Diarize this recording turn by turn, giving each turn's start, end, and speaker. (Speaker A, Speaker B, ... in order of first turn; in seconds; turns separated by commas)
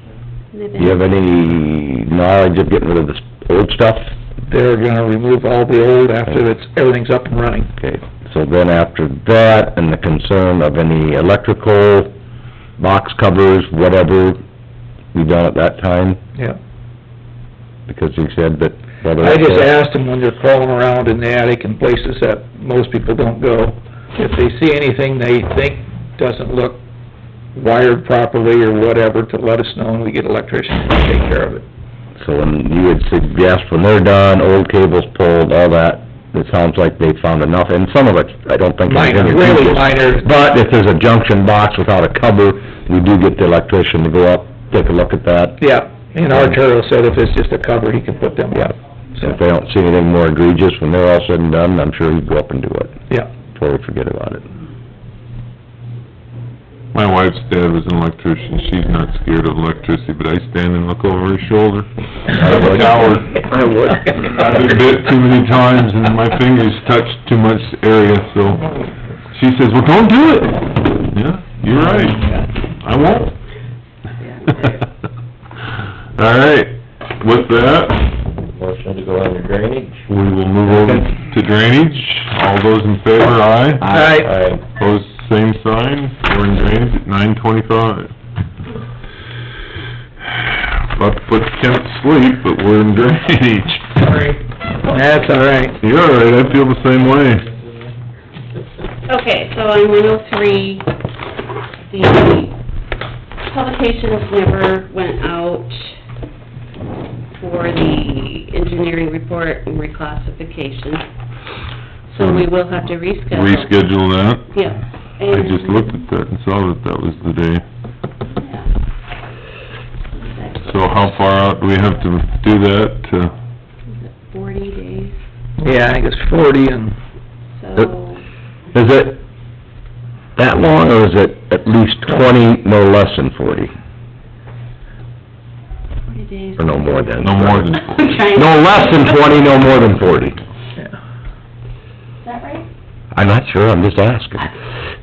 Speaker A: 0.5-1.0, Speaker B: 0.8-4.1, Speaker C: 4.4-7.7, Speaker B: 7.8-12.1, Speaker B: 12.8-14.4, Speaker B: 15.1-16.2, Speaker B: 17.9-19.7, Speaker C: 19.2-26.8, Speaker C: 27.5-31.6, Speaker B: 32.2-45.6, Speaker C: 38.9-40.3, Speaker C: 45.6-49.4, Speaker B: 46.3-46.6, Speaker B: 49.2-53.0, Speaker B: 53.5-54.4, Speaker D: 56.9-63.5, Speaker B: 62.4-64.6, Speaker D: 64.3-68.7, Speaker D: 69.3-73.3, Speaker C: 71.7-72.5, Speaker A: 74.2-74.8, Speaker D: 76.1-78.1, Speaker E: 78.5-80.0, Speaker D: 80.1-84.0, Speaker E: 80.7-81.0, Speaker C: 83.8-84.3, Speaker E: 83.9-84.6, Speaker D: 84.7-88.1, Speaker D: 90.9-94.4, Speaker C: 94.9-95.8, Speaker D: 95.8-97.5, Speaker A: 99.1-100.9, Speaker A: 101.9-102.5, Speaker A: 103.4-105.9, Speaker A: 107.3-111.0, Speaker A: 112.1-113.9, Speaker D: 112.2-112.5, Speaker D: 113.3-114.5, Speaker A: 114.5-116.0, Speaker D: 115.2-117.6, Speaker A: 118.3-118.7, Speaker A: 120.2-121.0, Speaker D: 120.6-123.3, Speaker A: 123.9-125.1, Speaker C: 125.6-127.0, Speaker A: 127.5-128.2, Speaker B: 128.7-129.2, Speaker B: 130.3-133.7, Speaker A: 136.0-139.5, Speaker B: 136.6-137.7, Speaker D: 137.2-137.8, Speaker B: 138.3-140.4, Speaker A: 142.2-142.7, Speaker B: 143.1-144.5